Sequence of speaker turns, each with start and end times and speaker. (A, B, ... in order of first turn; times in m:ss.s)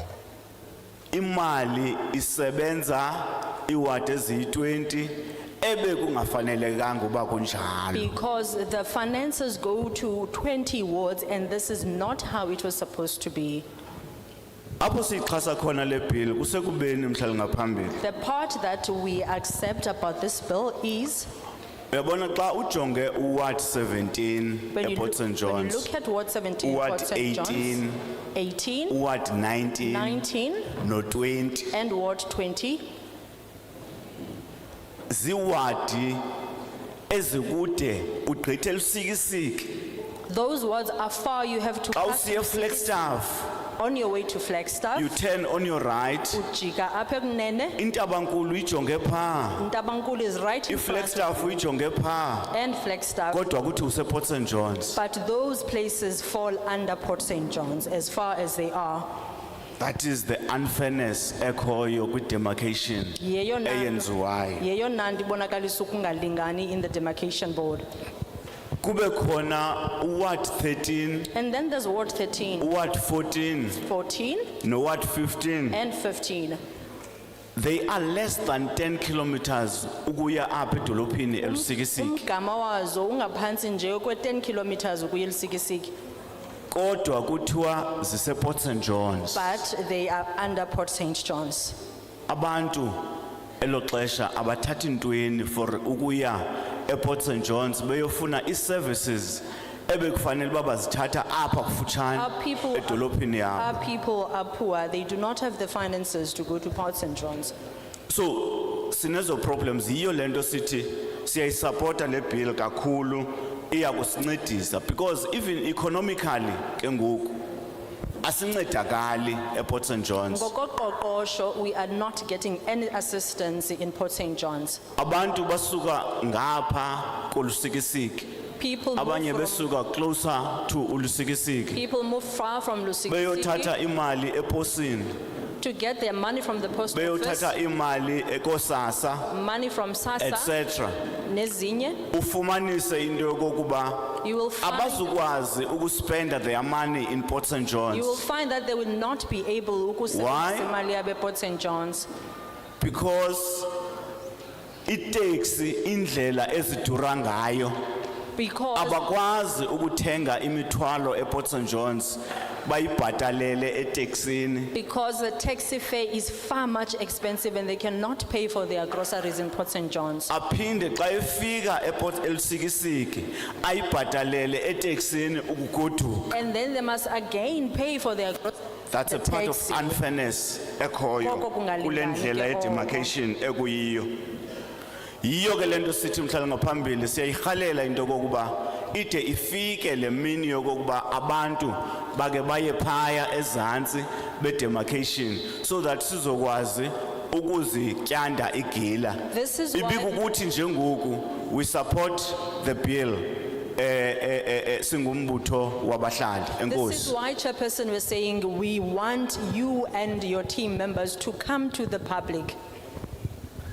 0:01.1-0:08.1 A
0:07.9-0:13.6 B
0:14.8-0:18.0 A
0:18.0-0:21.3 B
0:21.9-0:25.9 A
0:24.7-0:27.8 B
0:26.6-0:28.0 A
0:28.3-0:29.0 B
0:28.9-0:30.2 A
0:29.8-0:30.7 B
0:30.8-0:31.7 A
0:31.7-0:32.9 B
0:35.1-0:36.2 A
0:37.1-0:39.8 A
0:40.3-0:42.8 B
0:41.9-0:43.5 A
0:43.8-0:45.1 B
0:44.9-0:46.4 A
0:46.3-0:47.8 B
0:47.8-0:49.6 A
0:49.6-0:51.6 B
0:50.7-0:52.5 A
0:52.5-0:53.5 B
0:53.3-0:55.0 A
0:54.9-0:59.1 B
0:59.8-1:04.6 A
1:03.2-1:07.8 B
1:08.8-1:11.3 A
1:11.3-1:12.7 B
1:12.6-1:13.8 A
1:13.8-1:14.5 B
1:14.6-1:15.8 A
1:15.7-1:16.6 B
1:17.5-1:22.2 A
1:21.4-1:25.9 B
1:26.7-1:29.5 A
1:29.3-1:31.8 B
1:32.3-1:33.0 A
1:33.6-1:43.7 A
1:42.1-1:43.0 B
1:43.5-1:47.5 B
1:48.1-1:57.4 A
1:58.2-2:00.5 A
2:00.3-2:04.8 B
2:05.0-2:08.3 A
2:08.6-2:09.7 B
2:08.9-2:11.8 A
2:11.7-2:13.7 B
2:13.1-2:15.1 A
2:15.6-2:17.5 B
2:16.9-2:19.3 A
2:19.3-2:20.5 B
2:20.2-2:21.0 A
2:21.2-2:22.0 B
2:22.1-2:28.2 A
2:24.2-2:25.1 B
2:27.9-2:32.1 B
2:30.1-2:30.7 A
2:32.8-2:33.7 A
2:34.8-2:37.7 A
2:38.3-2:39.0 B
2:38.7-2:44.7 A
2:44.7-2:50.3 B
2:50.3-2:56.3 A
2:56.3-3:00.0 B
2:58.9-3:04.2 A
3:01.2-3:03.1 B
3:05.2-3:27.1 A
3:19.3-3:20.3 B
3:26.6-3:32.5 B